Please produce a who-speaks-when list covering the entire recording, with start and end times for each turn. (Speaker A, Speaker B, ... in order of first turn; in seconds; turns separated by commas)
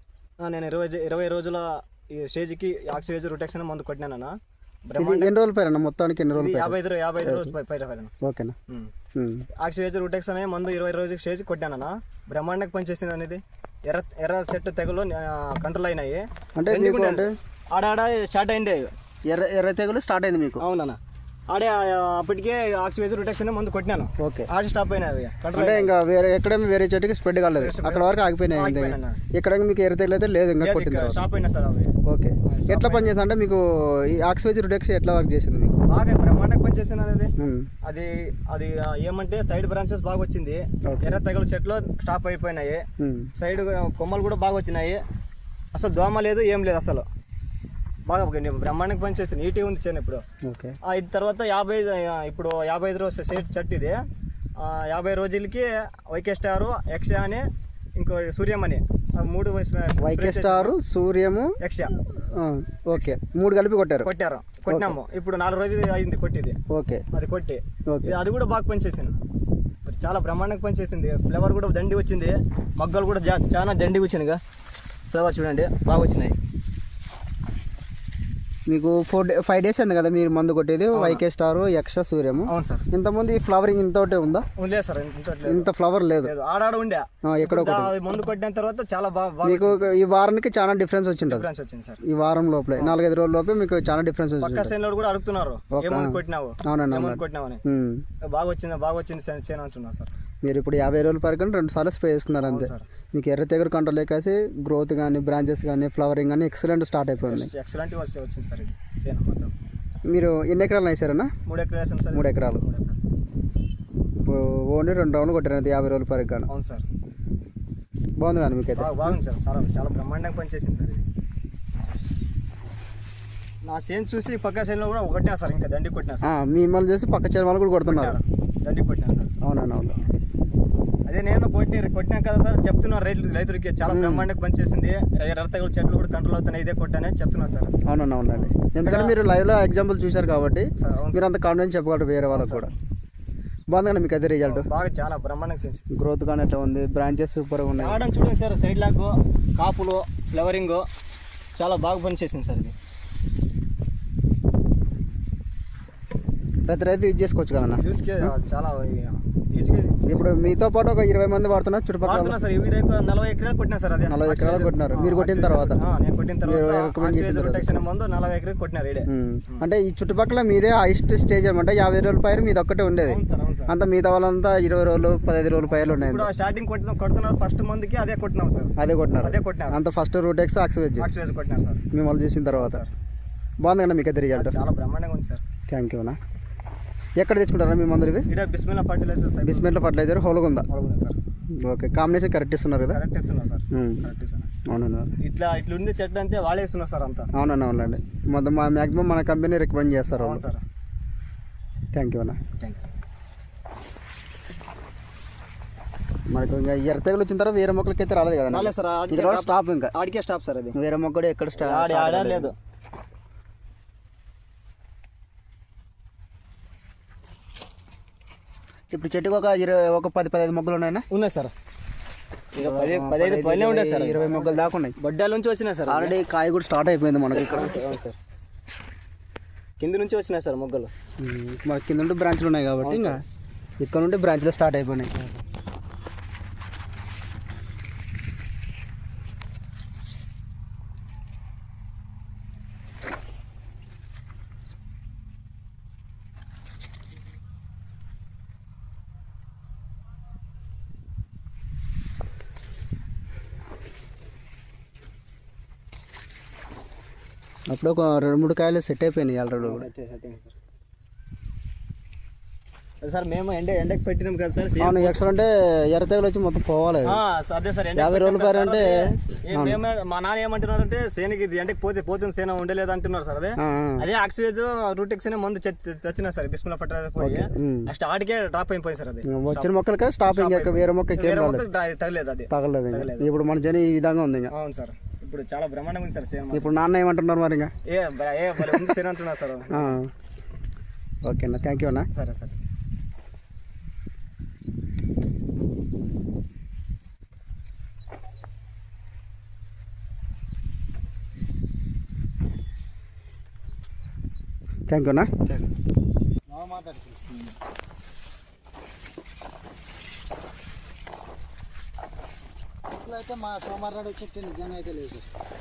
Speaker A: 0.4-5.3, Speaker B: 5.0-7.5, Speaker A: 6.4-8.1, Speaker B: 8.2-8.6, Speaker B: 9.2-9.5, Speaker A: 9.6-18.9, Speaker B: 16.6-17.4, Speaker B: 19.3-20.6, Speaker A: 20.6-21.0, Speaker A: 21.5-25.9, Speaker B: 24.2-24.5, Speaker B: 25.5-31.2, Speaker A: 27.5-29.2, Speaker A: 30.6-33.1, Speaker B: 32.1-35.8, Speaker A: 35.9-37.3, Speaker B: 37.4-37.7, Speaker A: 37.8-45.0, Speaker B: 40.9-41.2, Speaker B: 43.0-43.3, Speaker A: 45.7-47.1, Speaker A: 48.0-50.2, Speaker B: 50.5-50.8, Speaker A: 50.8-54.0, Speaker A: 54.6-60.8, Speaker B: 60.0-64.1, Speaker A: 61.6-61.9, Speaker A: 62.9-63.2, Speaker A: 64.0-66.6, Speaker B: 64.7-65.0, Speaker B: 66.7-67.0, Speaker A: 67.1-69.2, Speaker B: 67.9-68.2, Speaker A: 69.8-74.4, Speaker A: 75.1-76.4, Speaker B: 78.7-84.5, Speaker A: 80.9-81.2, Speaker A: 82.5-82.9, Speaker A: 84.6-85.7, Speaker B: 85.5-86.3, Speaker A: 86.2-90.0, Speaker B: 87.2-88.0, Speaker B: 89.4-91.5, Speaker A: 91.3-92.0, Speaker B: 92.0-94.7, Speaker A: 94.4-97.6, Speaker B: 95.7-98.0, Speaker A: 98.3-100.1, Speaker B: 100.4-107.5, Speaker A: 102.4-102.9, Speaker A: 107.2-109.5, Speaker B: 110.0-111.3, Speaker A: 111.5-113.0, Speaker B: 112.1-112.6, Speaker B: 114.2-116.5, Speaker A: 116.5-116.9, Speaker B: 118.2-119.2, Speaker A: 118.8-121.0, Speaker A: 123.6-126.3, Speaker B: 126.2-128.2, Speaker A: 127.9-129.3, Speaker B: 129.4-130.0, Speaker A: 131.1-137.8, Speaker B: 133.9-134.3, Speaker B: 137.9-142.7, Speaker A: 138.3-139.1, Speaker A: 140.8-141.3, Speaker A: 142.3-142.7, Speaker B: 143.7-144.7, Speaker A: 144.4-145.8, Speaker B: 145.9-148.0, Speaker A: 147.8-150.9, Speaker A: 151.6-152.8, Speaker B: 156.7-158.3, Speaker A: 157.8-160.6, Speaker B: 160.1-162.4, Speaker A: 162.0-169.6, Speaker B: 164.1-165.8, Speaker B: 166.5-167.8, Speaker B: 169.1-176.3, Speaker A: 173.1-173.8, Speaker A: 175.7-179.8, Speaker B: 178.8-181.1, Speaker A: 181.0-181.8, Speaker B: 181.9-182.8, Speaker A: 182.5-182.9, Speaker B: 183.6-184.6, Speaker A: 184.4-185.4, Speaker B: 185.7-186.2, Speaker B: 187.2-188.3, Speaker A: 188.3-189.7, Speaker B: 189.4-190.7, Speaker A: 190.7-191.2, Speaker B: 191.5-193.0, Speaker A: 192.9-194.5, Speaker B: 193.7-194.0, Speaker B: 194.7-195.1, Speaker A: 195.2-197.3, Speaker B: 197.3-200.4, Speaker A: 200.2-200.6, Speaker B: 201.9-202.4, Speaker A: 202.6-202.9, Speaker B: 206.3-209.9, Speaker A: 208.5-210.8, Speaker B: 210.7-212.5, Speaker A: 211.6-212.6, Speaker B: 218.9-221.1, Speaker A: 221.1-221.5, Speaker A: 222.6-226.1, Speaker B: 222.6-225.0, Speaker B: 225.9-227.8, Speaker A: 227.4-228.2, Speaker A: 229.8-230.9, Speaker B: 231.2-233.2, Speaker A: 232.8-233.2, Speaker B: 233.8-235.1, Speaker B: 257.7-259.9, Speaker A: 259.6-260.5, Speaker A: 263.0-265.2, Speaker B: 264.8-267.2, Speaker A: 267.0-279.7, Speaker B: 268.0-269.8, Speaker B: 273.6-274.1, Speaker B: 277.2-277.9, Speaker B: 279.2-281.6, Speaker A: 280.3-283.3, Speaker B: 282.5-284.5, Speaker A: 284.5-286.7, Speaker B: 286.5-287.7, Speaker A: 287.9-290.0, Speaker B: 288.6-288.9, Speaker B: 289.7-290.1, Speaker B: 291.2-292.1, Speaker A: 292.1-292.6, Speaker B: 304.9-305.3, Speaker A: 305.5-305.7, Speaker C: 306.6-306.9, Speaker C: 313.1-315.2